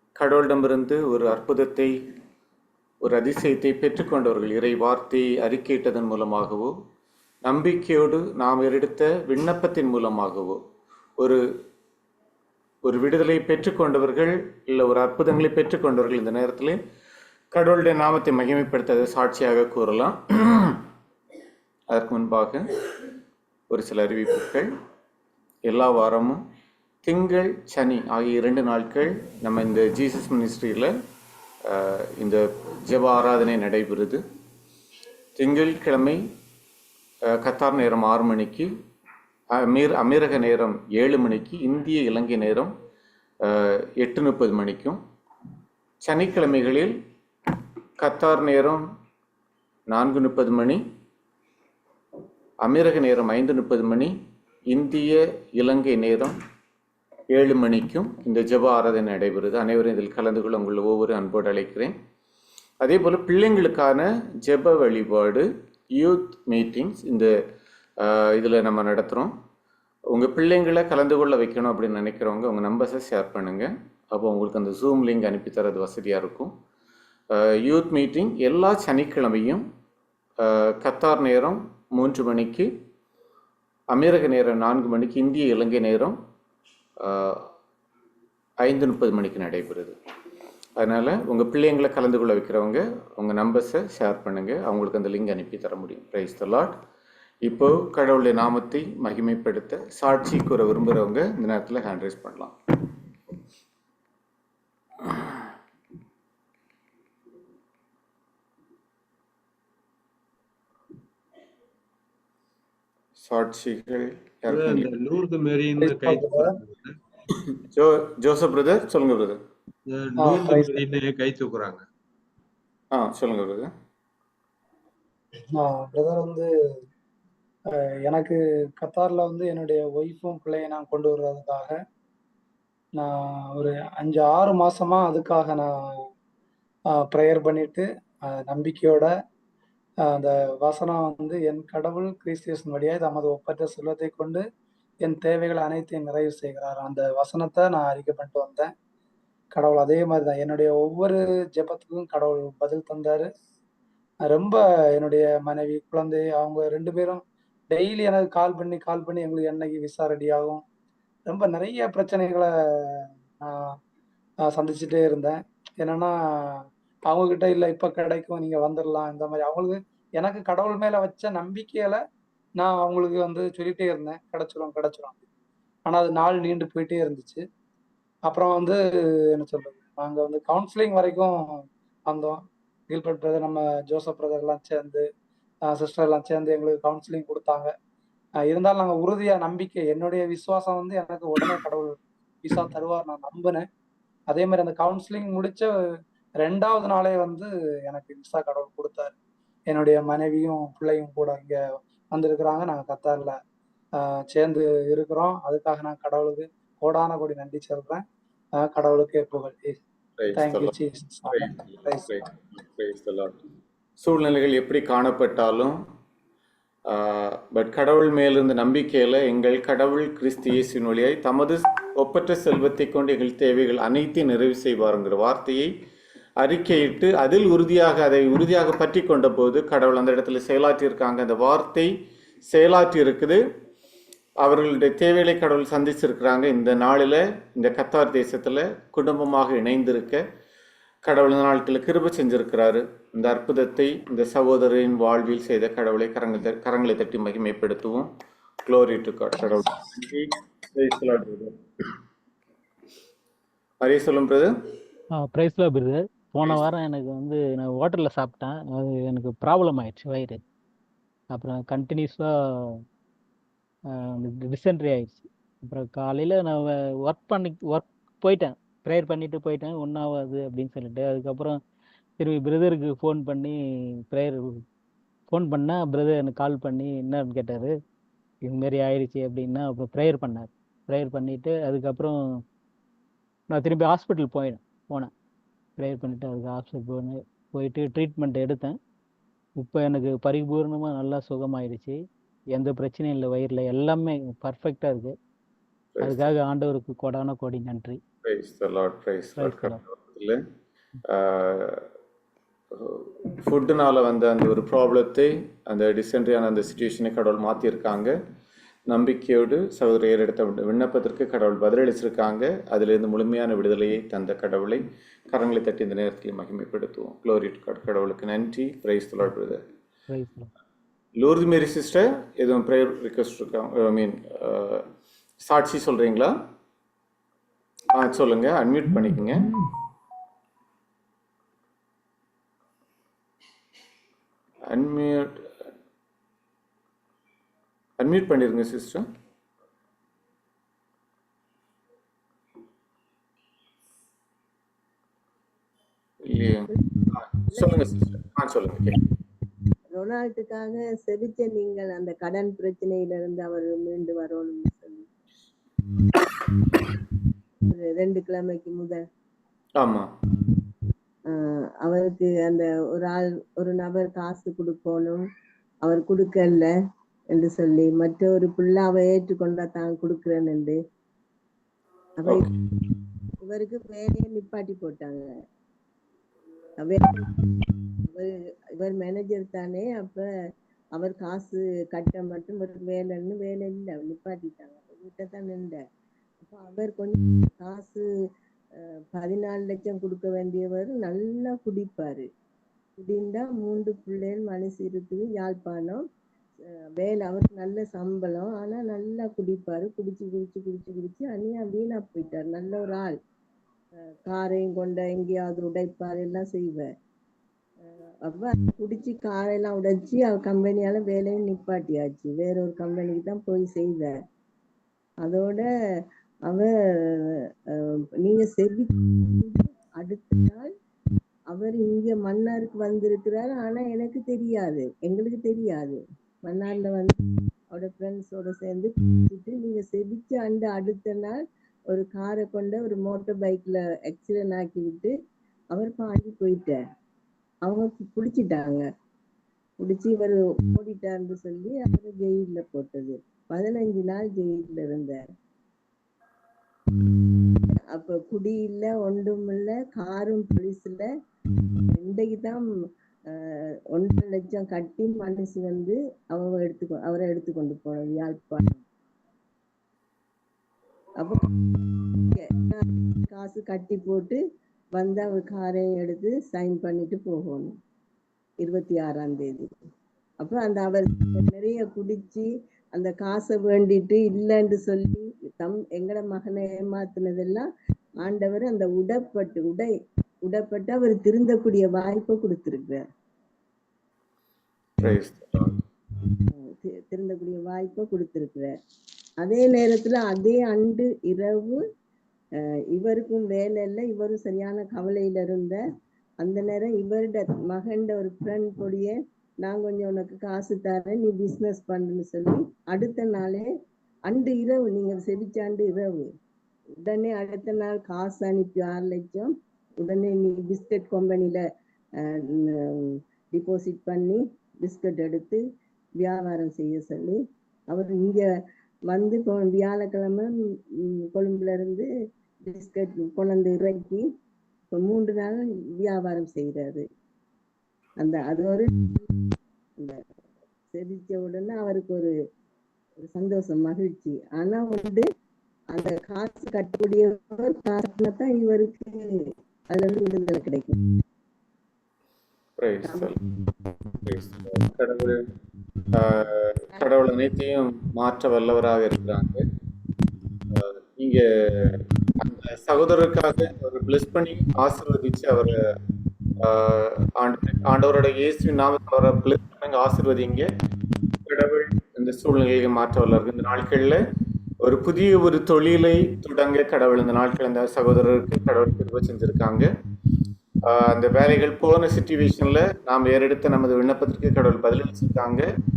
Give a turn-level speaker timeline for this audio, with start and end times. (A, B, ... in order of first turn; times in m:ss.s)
0:00.2-0:02.0 A
0:03.0-0:06.7 A
0:07.4-0:10.6 A
0:12.8-0:16.8 A
0:17.5-0:20.8 A
0:21.9-0:22.7 A
0:23.7-0:24.7 A
0:25.6-0:26.4 A
0:27.0-0:30.9 A
0:31.7-0:34.2 A
0:35.4-0:36.2 A
0:37.4-0:38.7 A
0:39.6-0:42.7 A
0:43.5-0:45.0 A
0:46.0-0:46.9 A
0:48.0-0:48.8 A
0:49.9-0:50.8 A
0:52.6-0:54.1 A
0:54.7-0:56.4 A
0:57.3-1:01.9 A
1:02.8-1:07.3 A
1:08.0-1:09.3 A
1:10.1-1:16.5 A
1:17.4-1:19.6 A
1:20.4-1:22.7 A
1:23.9-1:26.2 A
1:27.0-1:27.4 A
1:28.6-1:30.0 A
1:30.8-1:36.7 A
1:37.4-1:42.5 A
1:53.2-1:54.9 A
1:54.5-1:57.0 B
1:55.8-1:56.6 C
1:57.5-1:59.4 A
1:59.9-2:01.8 B
2:00.2-2:00.8 C
2:02.9-2:03.7 A
2:05.6-2:06.5 C
2:07.7-2:11.8 C
2:13.0-2:15.7 C
2:17.1-2:19.1 C
2:20.1-2:24.4 C
2:25.0-2:28.7 C
2:29.5-2:33.3 C
2:34.3-2:40.6 C
2:41.3-2:43.8 C
2:44.5-2:52.0 C
2:52.6-2:55.2 C
2:55.9-2:57.4 C
2:58.3-2:58.8 C
2:59.4-3:05.1 C
3:05.7-3:07.7 C
3:08.5-3:13.6 C
3:14.3-3:15.7 C
3:16.4-3:19.1 C
3:19.7-3:21.6 C
3:22.1-3:23.4 C
3:24.0-3:28.0 C
3:28.6-3:29.8 C
3:30.2-3:30.8 A
3:30.3-3:32.1 C
3:31.3-3:33.3 A
3:34.0-3:35.8 A
3:36.9-3:45.7 A
3:46.4-3:51.9 A
3:52.5-3:53.4 A
3:54.4-4:00.2 A
4:01.0-4:08.1 A
4:08.7-4:11.5 A
4:13.8-4:14.5 A
4:15.2-4:20.4 D
4:21.3-4:22.8 D
4:24.0-4:31.6 D
4:32.2-4:34.6 D
4:35.3-4:37.7 D
4:38.4-4:42.4 D
4:43.5-4:45.1 D
4:45.8-4:48.8 D
4:49.6-4:55.2 D
4:55.9-4:56.3 A
4:56.0-4:58.0 D
4:58.2-5:00.4 A
4:59.4-4:59.8 D
5:01.1-5:01.8 A
5:02.7-5:08.2 A
5:08.9-5:19.6 A
5:20.1-5:20.5 D
5:21.2-5:24.8 A
5:25.4-5:26.3 A
5:27.9-5:29.5 A
5:34.7-5:35.3 A
5:38.0-5:39.0 A
5:46.3-5:49.0 A
5:50.0-5:55.1 E
5:57.7-5:59.0 E
5:59.8-6:00.1 A
6:01.3-6:05.2 E
6:05.8-6:06.7 E
6:07.3-6:10.8 E
6:12.2-6:12.5 E
6:13.4-6:15.3 E
6:16.8-6:17.3 E
6:18.1-6:20.2 E
6:21.0-6:25.8 E
6:26.5-6:28.0 E
6:29.2-6:32.2 E
6:33.0-6:36.0 E
6:37.0-6:43.2 E
6:44.3-6:46.9 E
6:48.2-6:54.1 E
6:55.2-6:55.7 E
6:56.5-7:00.7 E
7:01.5-7:07.2 E
7:07.7-7:11.4 E
7:11.9-7:15.1 E
7:15.7-7:16.8 E
7:17.7-7:18.8 E
7:19.8-7:25.2 E
7:27.9-7:31.0 E
7:31.9-7:32.6 E
7:33.3-7:38.8 E
7:41.2-7:41.6 E
7:42.3-7:44.4 E
7:45.0-7:47.7 E
7:48.6-7:49.7 E
7:50.4-7:57.7 E
7:58.2-7:59.9 E
8:00.5-8:03.0 E
8:05.0-8:05.8 A
8:06.6-8:08.7 E
8:09.4-8:11.8 E
8:12.9-8:15.8 E
8:16.4-8:23.7 E
8:24.3-8:26.3 E
8:27.0-8:29.5 E
8:30.0-8:31.6 E
8:32.2-8:35.6 E
8:36.2-8:37.4 E
8:37.9-8:38.4 E
8:39.1-8:40.5 E
8:41.1-8:42.1 E
8:42.7-8:44.2 E
8:44.9-8:47.0 E
8:48.2-8:49.3 E
8:50.9-8:52.3 E
8:53.3-8:55.2 E
8:56.0-8:59.2 E
8:59.9-9:01.0 E
9:02.8-9:03.4 A
9:03.0-9:03.3 E
9:04.2-9:05.4 A
9:06.1-9:09.6 A
9:10.7-9:15.8 A
9:16.6-9:20.7 A
9:21.5-9:24.2 A
9:24.8-9:29.9 A
9:30.9-9:35.7 A